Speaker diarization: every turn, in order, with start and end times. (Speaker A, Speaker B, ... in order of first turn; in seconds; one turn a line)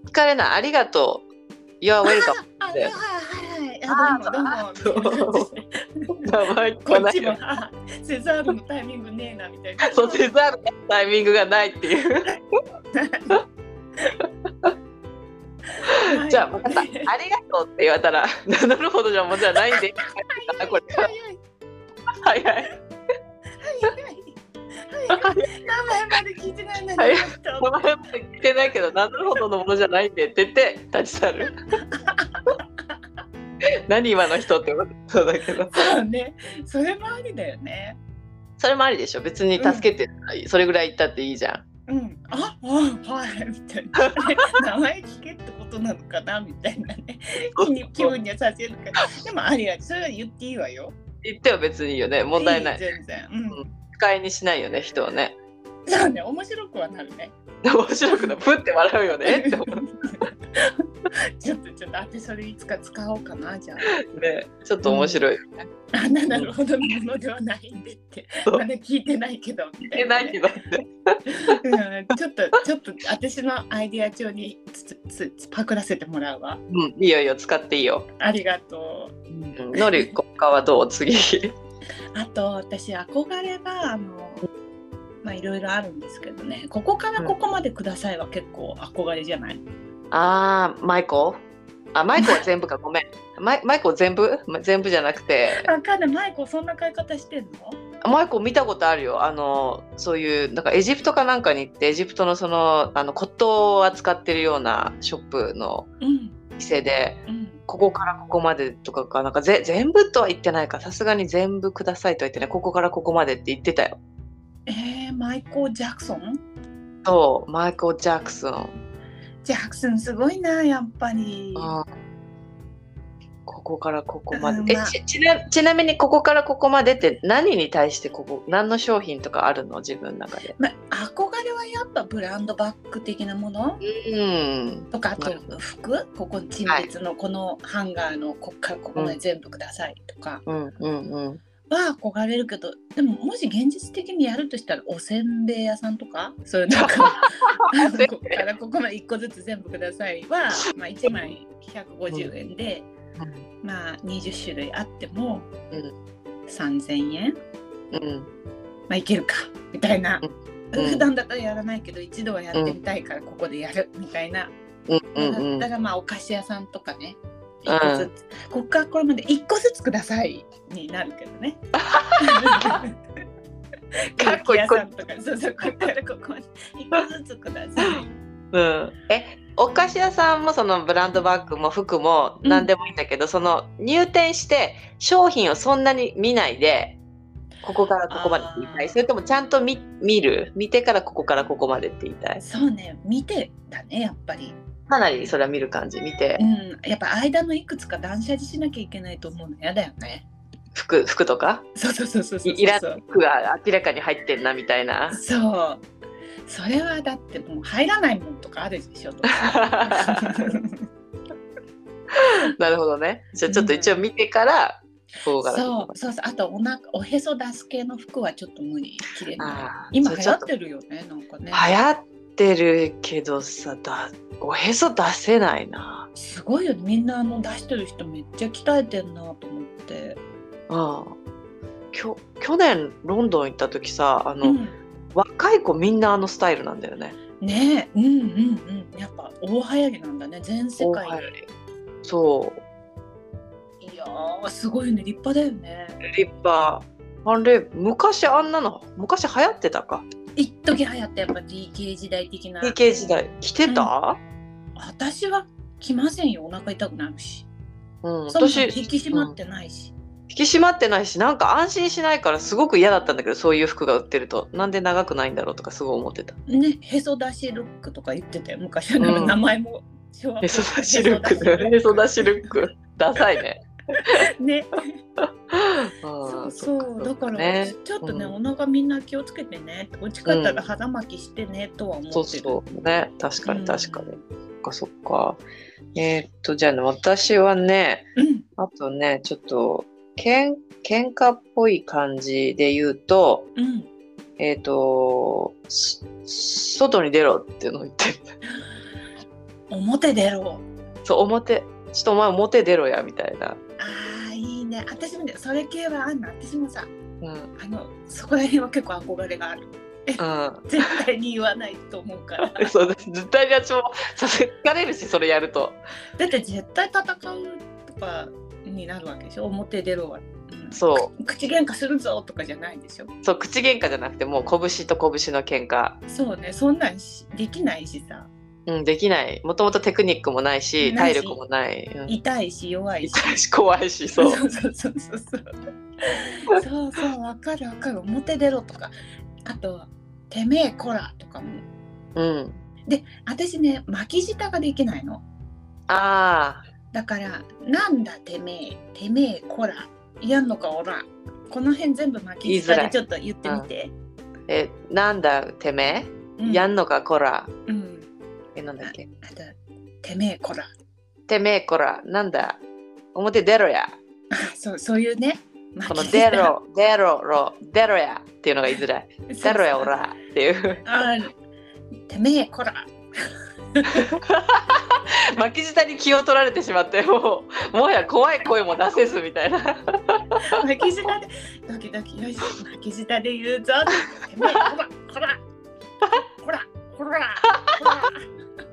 Speaker A: 0.1-1.3
Speaker A: 1.8-2.9
Speaker B: 2.0-6.2
Speaker A: 3.9-5.5
Speaker A: 6.2-7.4
Speaker B: 6.8-10.3
Speaker A: 9.9-12.3
Speaker B: 12.9-13.4
Speaker B: 15.7-17.1
Speaker A: 15.9-21.1
Speaker B: 19.6-21.4
Speaker A: 22.2-22.7
Speaker B: 23.6-27.9
Speaker A: 25.1-25.4
Speaker A: 27.0-31.6
Speaker B: 31.7-32.6
Speaker A: 33.9-35.8
Speaker B: 35.7-38.0
Speaker A: 38.6-41.6
Speaker B: 39.6-39.9
Speaker B: 41.9-50.9
Speaker A: 47.6-48.1
Speaker A: 51.2-52.8
Speaker B: 52.3-53.7
Speaker A: 53.5-55.4
Speaker B: 55.9-57.3
Speaker A: 57.6-59.8
Speaker B: 59.2-64.0
Speaker A: 64.0-65.7
Speaker B: 64.8-65.2
Speaker B: 65.9-70.4
Speaker A: 69.9-71.5
Speaker B: 71.3-76.6
Speaker A: 76.7-78.1
Speaker B: 78.2-79.2
Speaker A: 79.3-81.5
Speaker B: 79.7-80.1
Speaker B: 82.1-84.5
Speaker B: 85.2-89.6
Speaker A: 90.1-91.4
Speaker A: 91.9-95.7
Speaker B: 92.2-92.4
Speaker B: 95.5-97.8
Speaker A: 98.0-105.9
Speaker B: 106.0-106.4
Speaker A: 106.6-114.0
Speaker B: 107.3-107.6
Speaker B: 114.7-116.4
Speaker A: 117.0-118.8
Speaker B: 119.4-121.7
Speaker A: 121.5-121.9
Speaker A: 123.5-130.5
Speaker B: 124.3-125.0
Speaker B: 130.6-133.8
Speaker A: 133.8-135.4
Speaker B: 134.9-140.4
Speaker A: 140.4-141.4
Speaker B: 141.7-152.9
Speaker A: 146.7-148.4
Speaker A: 151.1-151.3
Speaker A: 153.2-153.4
Speaker B: 153.6-155.5
Speaker B: 156.5-157.4
Speaker A: 157.9-158.3
Speaker B: 158.9-164.5
Speaker A: 160.2-161.1
Speaker A: 164.9-165.7
Speaker B: 165.1-172.9
Speaker A: 167.7-168.1
Speaker A: 171.8-172.8
Speaker B: 174.1-178.1
Speaker A: 174.2-174.8
Speaker A: 178.5-187.0
Speaker B: 182.4-182.7
Speaker A: 187.6-192.4
Speaker B: 188.1-188.9
Speaker B: 192.4-194.6
Speaker A: 194.9-196.4
Speaker B: 196.4-200.2
Speaker A: 200.7-201.7
Speaker B: 201.8-203.0
Speaker A: 202.4-205.2
Speaker B: 205.1-205.8
Speaker B: 206.4-210.8
Speaker A: 209.4-210.5
Speaker A: 212.1-215.9
Speaker B: 213.5-214.0
Speaker B: 215.4-221.7
Speaker A: 219.4-220.4
Speaker A: 221.5-226.1
Speaker B: 226.1-230.2
Speaker A: 230.7-231.1
Speaker A: 231.9-234.6
Speaker B: 234.4-234.8
Speaker A: 235.1-237.2
Speaker B: 237.4-241.3
Speaker A: 240.8-241.4
Speaker A: 242.0-242.6
Speaker B: 243.8-246.0
Speaker A: 246.0-250.1
Speaker B: 250.3-253.1
Speaker A: 252.6-254.2
Speaker B: 253.7-253.9
Speaker B: 254.8-257.5
Speaker A: 258.0-259.3
Speaker B: 258.3-259.9
Speaker A: 260.3-266.4
Speaker B: 266.5-272.3
Speaker A: 269.0-269.4
Speaker A: 270.4-273.6
Speaker B: 274.0-275.0
Speaker A: 275.2-278.3
Speaker B: 276.2-282.6
Speaker A: 280.3-280.6
Speaker A: 282.1-285.4
Speaker B: 283.4-284.2
Speaker A: 285.9-293.5
Speaker B: 288.1-288.4
Speaker B: 293.6-293.9
Speaker A: 294.4-298.3
Speaker B: 299.7-300.6
Speaker A: 301.0-303.6
Speaker B: 303.8-306.9
Speaker A: 307.2-307.5
Speaker B: 307.6-312.7
Speaker A: 310.2-310.7
Speaker A: 312.5-315.8
Speaker B: 316.2-323.1
Speaker A: 320.7-321.1
Speaker A: 323.2-326.0
Speaker B: 326.1-328.3
Speaker A: 328.7-332.1
Speaker B: 330.8-331.4
Speaker B: 332.1-333.3
Speaker A: 333.0-334.4
Speaker B: 334.2-335.5
Speaker B: 336.0-338.9
Speaker B: 339.4-341.6
Speaker A: 342.1-342.6
Speaker B: 342.9-345.2
Speaker A: 345.9-346.6
Speaker B: 346.9-353.9
Speaker A: 352.4-353.7
Speaker A: 354.5-357.5
Speaker B: 356.4-356.7
Speaker B: 357.7-358.1
Speaker A: 358.5-359.1
Speaker B: 358.8-360.7
Speaker A: 361.3-362.6
Speaker A: 363.1-363.9
Speaker B: 364.3-366.5
Speaker A: 365.9-370.8
Speaker B: 369.3-369.9
Speaker B: 370.8-371.3
Speaker B: 372.1-374.1
Speaker A: 374.1-380.4
Speaker B: 380.4-385.4
Speaker B: 386.4-388.2